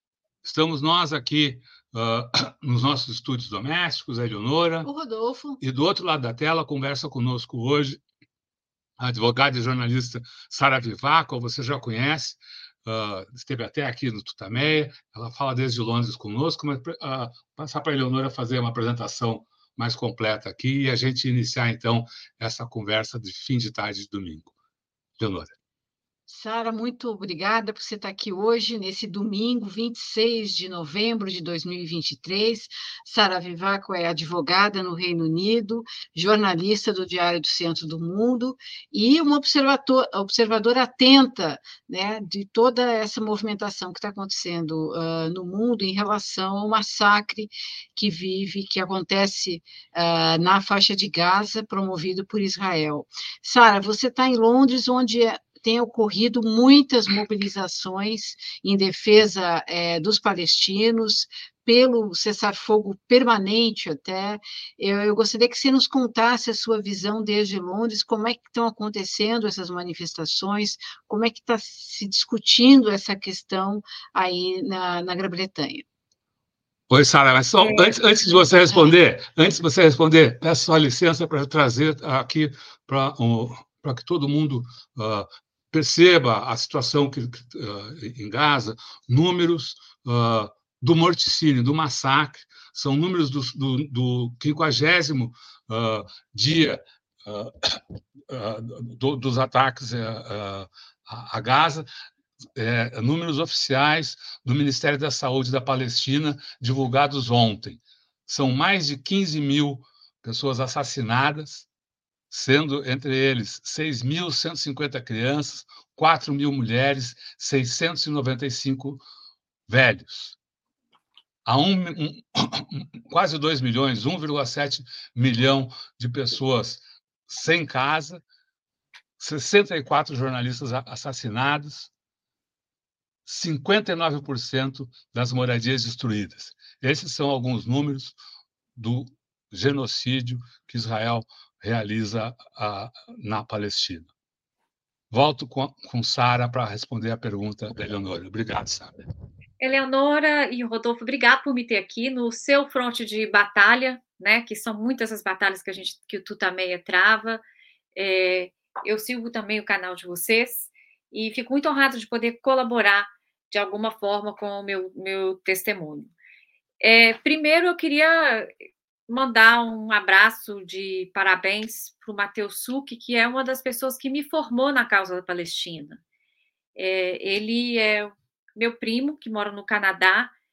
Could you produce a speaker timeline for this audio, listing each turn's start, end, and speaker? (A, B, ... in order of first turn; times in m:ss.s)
0:00.4-0:04.9 A
0:04.8-0:05.6 B
0:05.6-0:08.0 A
0:09.0-0:24.5 A
0:25.2-0:25.5 A
0:26.3-1:15.8 B
1:16.9-1:41.9 A
1:17.6-1:18.0 C
1:42.6-1:51.7 A
1:52.3-1:59.0 A
1:59.7-2:00.4 A
2:01.4-2:08.2 A
2:09.2-2:11.9 A
2:13.2-2:18.1 A
2:18.8-2:24.1 A
2:25.1-2:28.9 A
2:29.6-2:37.4 C
2:37.9-2:46.1 C
2:46.8-2:48.5 C
2:49.1-2:56.0 C
2:56.8-3:00.3 C